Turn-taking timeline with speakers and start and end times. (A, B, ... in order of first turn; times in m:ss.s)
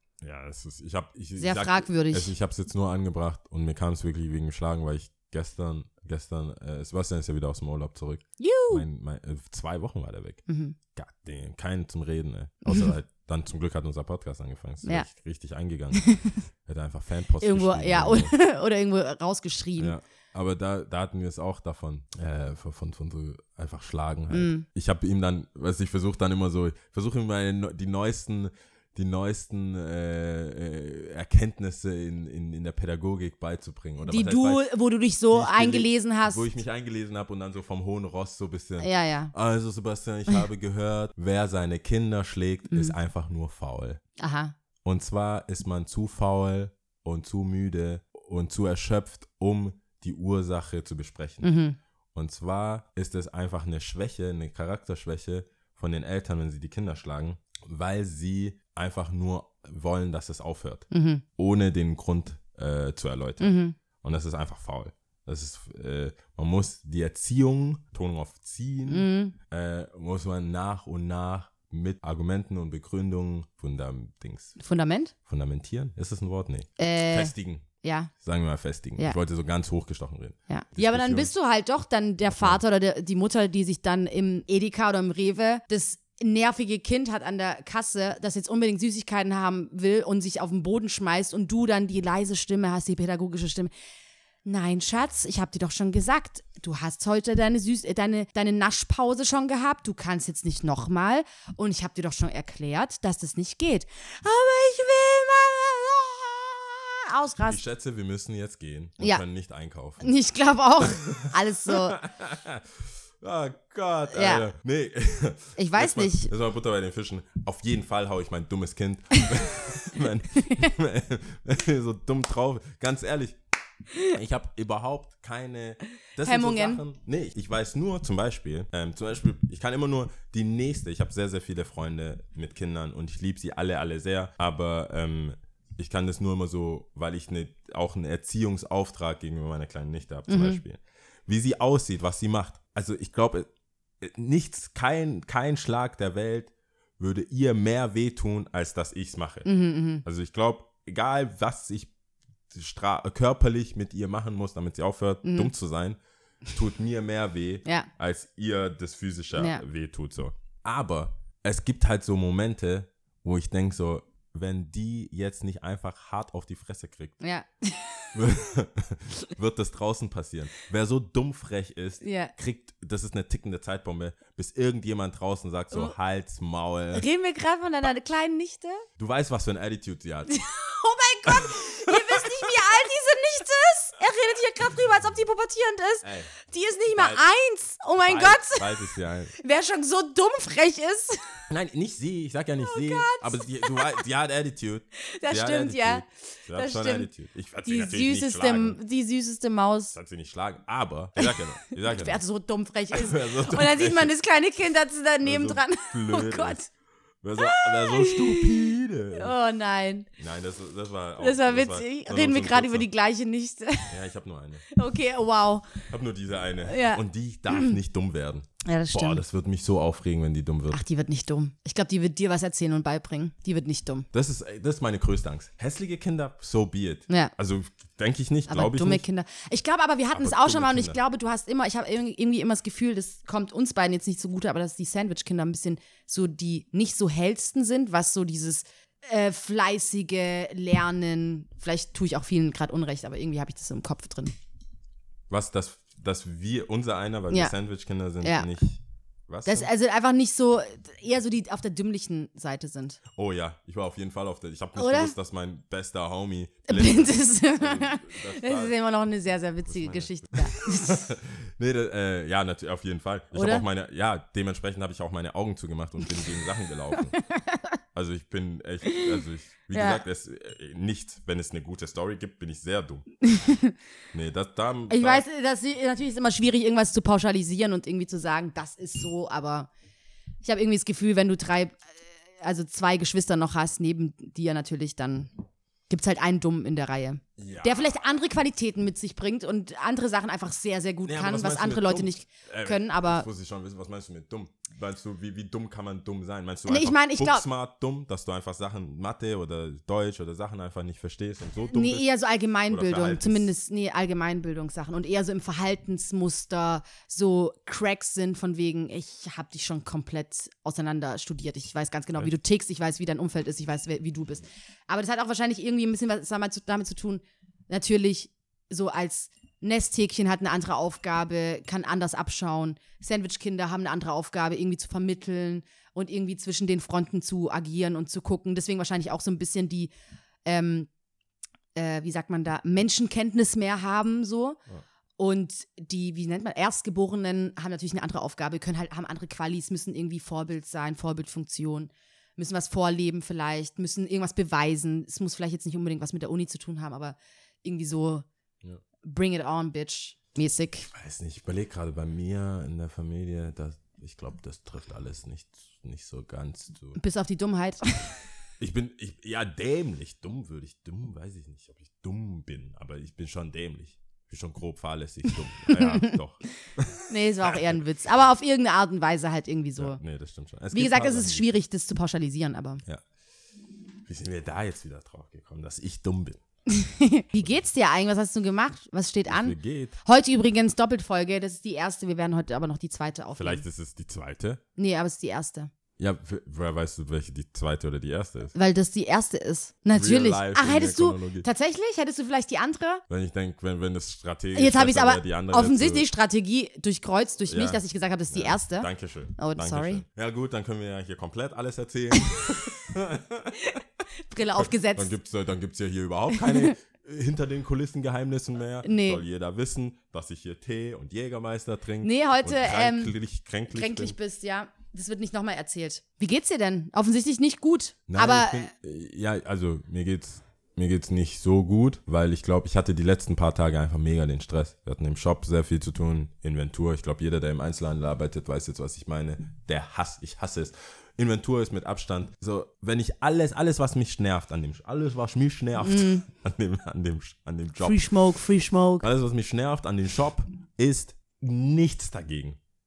0:00.2-0:10.4 A
0:01.4-0:02.3 B
0:08.4-0:08.8 B
0:10.5-0:10.8 B
0:11.0-0:18.3 A
0:12.6-0:12.9 B
0:16.0-0:16.4 B
0:17.4-0:20.0 B
0:19.8-0:34.7 A
0:24.3-0:24.7 B
0:34.0-0:36.4 B
0:35.3-0:44.0 A
0:38.8-0:39.3 B
0:42.7-0:43.0 B
0:44.2-0:44.6 B
0:44.8-0:51.5 A
0:51.4-0:51.8 B
0:52.1-1:14.6 A
1:00.9-1:01.2 B
1:03.4-1:03.8 B
1:08.9-1:09.4 B
1:14.6-1:15.1 B
1:15.3-1:17.7 A
1:16.8-1:18.1 B
1:18.2-1:21.3 A
1:20.5-1:33.7 B
1:22.3-1:22.6 A
1:34.4-1:47.6 B
1:47.5-1:50.1 A
1:50.0-1:52.0 B
1:50.8-2:03.4 A
1:54.1-1:54.5 B
1:55.6-1:56.3 B
2:00.4-2:00.7 B
2:04.1-2:23.5 A
2:06.2-2:06.8 B
2:20.3-2:20.6 B
2:24.0-2:29.5 A
2:29.4-2:30.0 B
2:30.0-2:31.9 A
2:32.5-2:36.0 A
2:35.2-2:35.5 B
2:36.5-2:47.2 A
2:39.4-2:39.6 B
2:47.2-2:48.1 B
2:48.1-2:57.1 A
2:52.0-2:52.3 B
2:56.9-2:58.8 B
2:59.0-3:00.4 A
3:00.3-3:11.2 B
3:01.3-3:02.5 A
3:06.0-3:06.3 A
3:06.9-3:07.2 A
3:08.0-3:09.3 A
3:11.5-3:18.8 A
3:12.6-3:14.0 B
3:15.1-3:17.1 B
3:17.6-3:20.0 B
3:19.9-3:22.2 A
3:21.8-3:26.7 B
3:22.9-3:24.1 A
3:25.2-3:26.6 A
3:27.2-3:29.4 A
3:27.4-3:30.1 B
3:30.2-3:32.9 A
3:31.2-3:33.9 B
3:33.9-3:34.6 A
3:34.7-3:35.8 B
3:35.9-3:40.8 A
3:36.6-3:37.8 B
3:38.6-3:39.2 B
3:40.7-3:44.1 B
3:44.1-3:49.0 A
3:48.5-4:04.4 B
3:50.1-3:51.0 A
4:05.3-4:09.7 A
4:08.2-4:08.5 B
4:09.4-4:13.0 B
4:13.1-4:18.7 A
4:14.8-4:15.1 B
4:16.7-4:21.1 B
4:19.7-4:27.2 A
4:23.3-4:23.7 B
4:27.3-4:27.6 B
4:27.9-4:33.1 A
4:29.7-4:30.0 B
4:33.2-4:33.7 B
4:34.1-4:35.2 A
4:34.9-4:39.7 B
4:40.4-4:41.8 B
4:42.4-4:45.3 B
4:45.9-4:53.3 B
4:47.4-4:48.0 A
4:51.1-5:02.1 A
4:56.7-4:57.5 B
5:01.7-5:29.9 B
5:02.7-5:03.5 A
5:30.4-5:30.9 B
5:31.8-5:34.6 B
5:35.2-5:48.3 B
5:49.0-5:50.9 B
5:50.9-5:57.0 A
5:57.0-5:58.1 B
5:58.6-6:07.6 A
6:05.7-6:06.2 B
6:07.1-6:10.0 B
6:09.8-6:11.5 A
6:10.7-6:12.8 B
6:14.1-6:16.4 A
6:16.7-6:23.6 B
6:17.4-6:17.6 A
6:19.3-6:20.0 A
6:23.4-6:24.6 A
6:24.8-6:25.7 B
6:26.0-6:28.5 A
6:28.5-6:33.0 B
6:29.9-6:31.5 A
6:33.1-6:36.1 A
6:34.6-6:40.0 B
6:37.5-6:43.7 A
6:44.3-6:45.1 B
6:44.6-6:54.2 A
6:46.3-6:46.8 B
6:48.8-6:49.2 B
6:52.0-6:53.1 B
6:53.7-6:58.7 B
6:58.1-7:18.1 A
7:15.8-7:16.2 B
7:17.8-7:19.1 B
7:19.0-7:22.6 A